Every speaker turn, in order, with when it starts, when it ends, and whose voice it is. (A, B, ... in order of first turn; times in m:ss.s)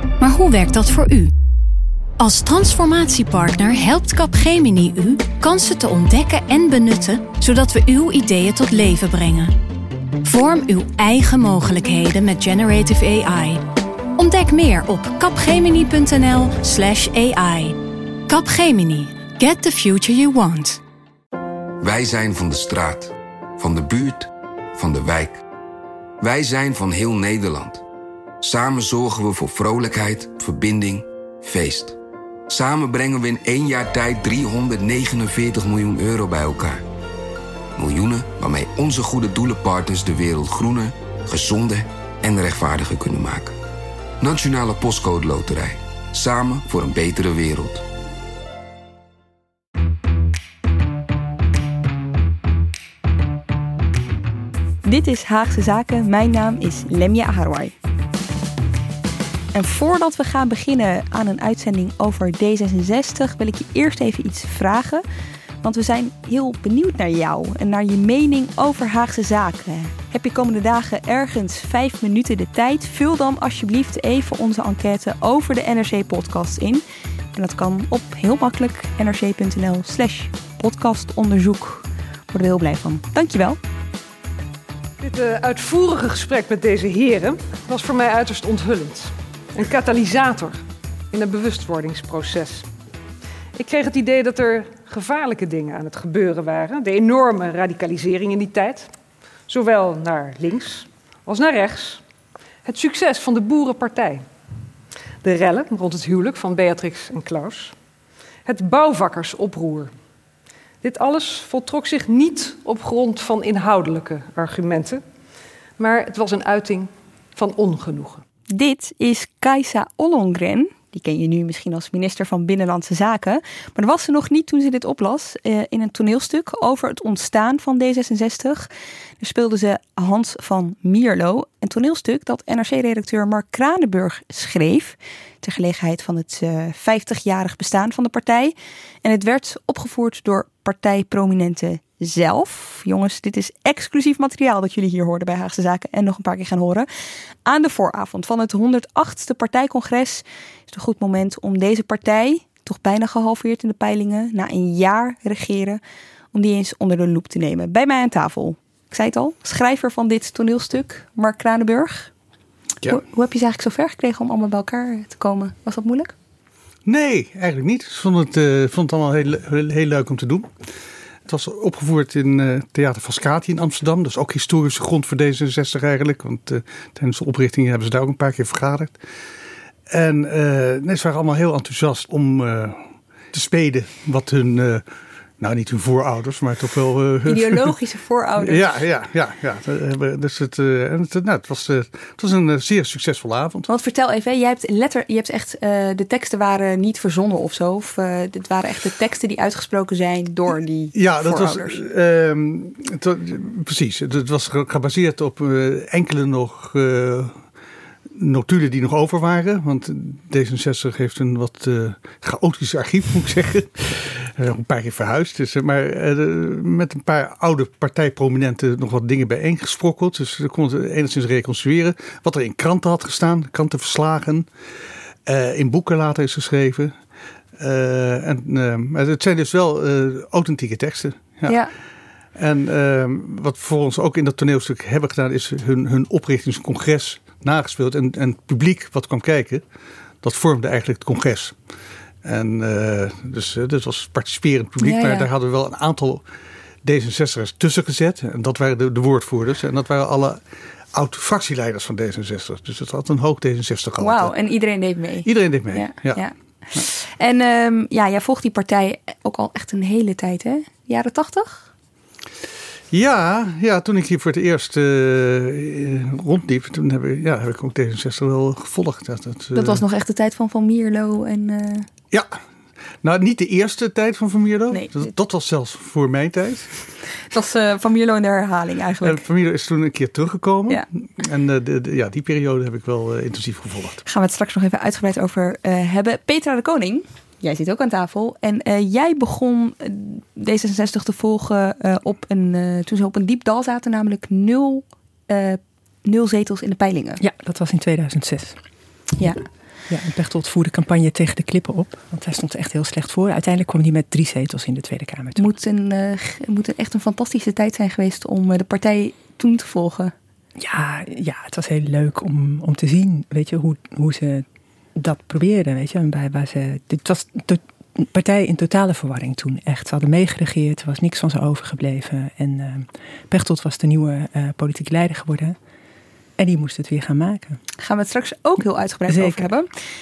0:00.2-0:01.3 A
0:02.2-0:09.5 A
0:10.2-0:13.6 A
0:14.2-0:20.8 A
0:21.8-0:25.4 B
0:26.2-0:27.8 B
0:28.4-0:32.0 B
0:32.5-0:36.8 B
0:37.8-0:43.5 B
0:44.2-0:47.8 B
0:54.8-0:57.7 C
0:59.5-1:05.0 C
1:05.6-1:23.6 C
1:25.0-1:32.7 D
1:33.6-1:38.9 D
1:39.5-1:42.0 D
1:42.6-1:44.2 D
1:45.2-1:47.7 D
1:48.4-1:49.9 D
1:50.8-1:55.0 D
1:55.8-1:58.2 D
1:58.5-2:08.7 C
2:09.2-2:26.9 C
2:27.4-2:35.8 C
2:36.3-2:42.1 C
2:42.8-2:46.1 C
2:46.8-2:50.5 E
2:51.2-2:59.0 E
2:59.9-3:04.8 E
3:05.4-3:07.7 E
3:07.2-3:08.8 C
3:08.4-3:13.7 E
3:13.7-3:21.8 C
3:20.9-3:27.4 E
3:28.1-3:44.5 E
3:45.2-3:46.9 E
3:47.6-3:51.6 E
3:52.4-3:59.6 E
4:00.2-4:01.6 E
4:02.2-4:06.2 E
4:04.8-4:05.3 C
4:06.8-4:10.4 E
4:10.9-4:14.3 E
4:14.0-4:21.7 C
4:15.2-4:16.2 E
4:22.9-4:29.8 E
4:29.5-4:31.9 C
4:32.1-4:32.4 E
4:33.0-4:36.7 E
4:34.7-4:35.0 C
4:37.3-4:39.2 C
4:39.0-4:44.0 E
4:44.0-4:57.2 C
4:57.2-4:58.6 F
4:59.9-5:05.4 F
5:05.4-5:10.1 C
5:10.6-5:14.4 F
5:15.0-5:25.6 F
5:26.4-5:27.6 F
5:27.8-5:29.7 C
5:29.1-5:29.4 F